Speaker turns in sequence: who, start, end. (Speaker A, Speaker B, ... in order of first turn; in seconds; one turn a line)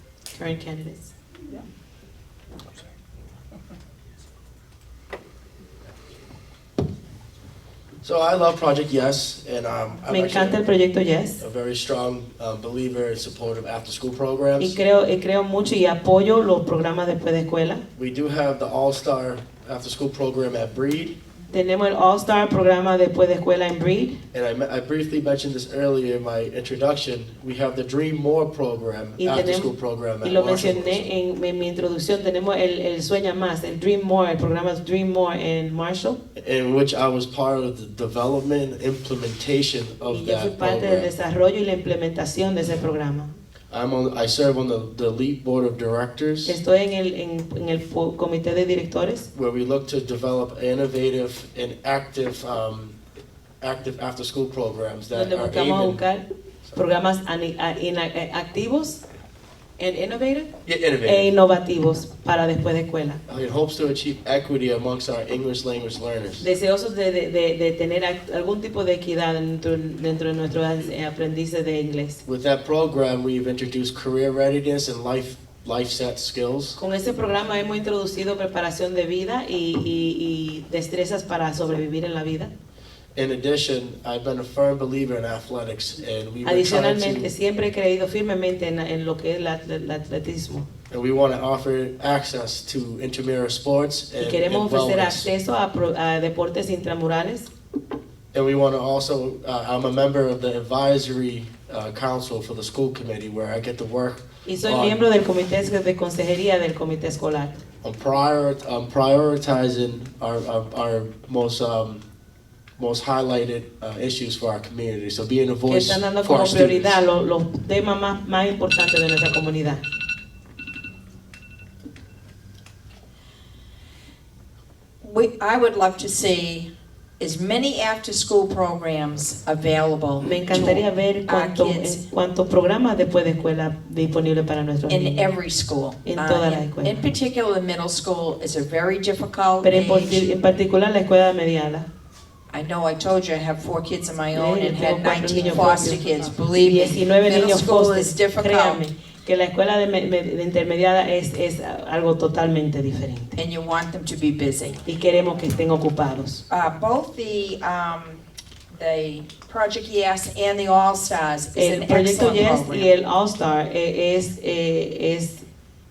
Speaker A: 0.3-1.1
Speaker B: 8.0-10.7
Speaker A: 10.1-11.4
Speaker B: 11.4-14.8
Speaker A: 14.6-17.8
Speaker B: 17.9-21.1
Speaker A: 21.5-24.2
Speaker B: 24.3-31.1
Speaker A: 29.2-36.2
Speaker B: 36.3-41.1
Speaker A: 40.1-43.3
Speaker B: 43.7-46.6
Speaker A: 46.4-49.3
Speaker B: 49.3-53.0
Speaker B: 53.6-56.0
Speaker A: 55.1-59.0
Speaker A: 59.8-60.5
Speaker B: 60.6-61.3
Speaker A: 61.0-63.2
Speaker B: 63.3-66.5
Speaker A: 66.4-72.2
Speaker B: 72.2-76.8
Speaker A: 76.8-82.5
Speaker B: 83.1-87.3
Speaker A: 86.4-90.7
Speaker B: 90.9-95.3
Speaker A: 94.2-97.5
Speaker B: 98.3-105.0
Speaker A: 104.4-107.6
Speaker B: 107.8-112.0
Speaker B: 112.8-117.0
Speaker A: 115.7-119.8
Speaker C: 125.0-132.0
Speaker A: 130.2-135.3
Speaker C: 134.9-140.3
Speaker A: 136.0-137.0
Speaker A: 139.6-141.9
Speaker C: 142.5-148.8
Speaker A: 144.3-146.0
Speaker A: 146.5-153.3
Speaker C: 153.3-154.8
Speaker A: 154.8-156.4
Speaker C: 156.5-162.9
Speaker A: 161.5-165.4